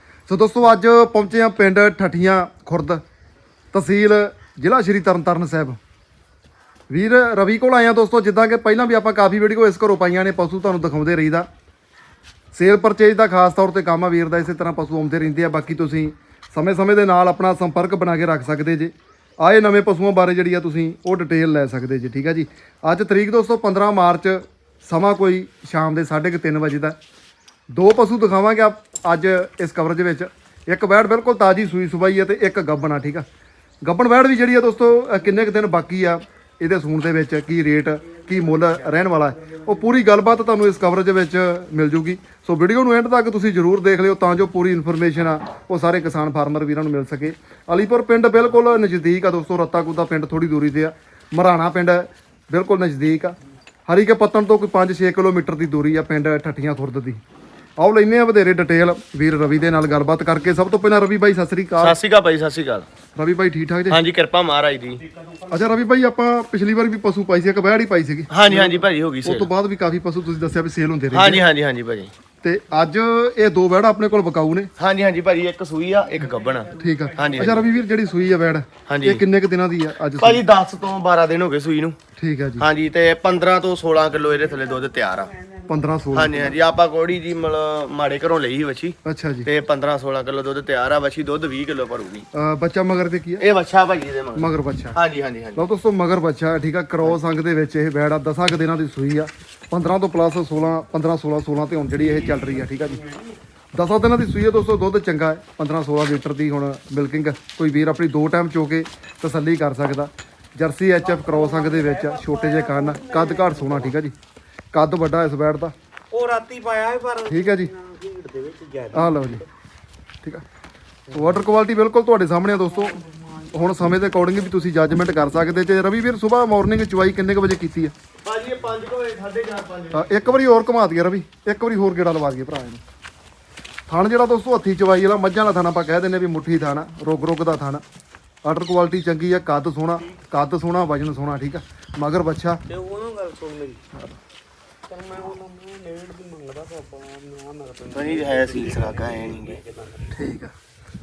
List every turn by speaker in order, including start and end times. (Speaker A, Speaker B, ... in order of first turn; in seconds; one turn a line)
Speaker A: 0.3-3.0
Speaker A: 3.7-5.8
Speaker A: 6.9-11.5
Speaker A: 12.5-27.0
Speaker A: 27.7-33.2
Speaker A: 33.8-53.4
Speaker A: 53.9-57.2
Speaker A: 57.8-62.0
Speaker B: 61.8-62.9
Speaker A: 63.1-64.0
Speaker B: 63.9-65.0
Speaker C: 65.0-65.6
Speaker A: 65.5-71.4
Speaker B: 68.3-69.5
Speaker B: 71.1-72.1
Speaker A: 72.4-74.7
Speaker B: 74.8-77.7
Speaker A: 76.8-80.4
Speaker B: 78.9-79.2
Speaker B: 80.2-82.0
Speaker A: 82.2-82.6
Speaker B: 82.6-85.3
Speaker C: 85.4-85.7
Speaker A: 85.7-86.5
Speaker B: 86.1-92.3
Speaker A: 89.0-89.5
Speaker A: 92.3-93.4
Speaker B: 93.4-95.6
Speaker A: 94.3-95.0
Speaker A: 95.5-103.0
Speaker C: 102.0-103.3
Speaker A: 103.7-114.1
Speaker C: 111.1-113.9
Speaker A: 114.7-115.7
Speaker C: 116.1-119.5
Speaker A: 117.3-117.7
Speaker A: 118.9-119.4
Speaker A: 121.1-127.9
Speaker C: 122.9-123.5
Speaker B: 128.2-130.4
Speaker A: 129.9-132.8
Speaker A: 133.9-137.8
Speaker A: 138.4-142.6
Speaker C: 142.7-143.8
Speaker A: 143.9-144.2
Speaker C: 144.9-150.2
Speaker B: 147.9-149.6
Speaker A: 150.1-150.5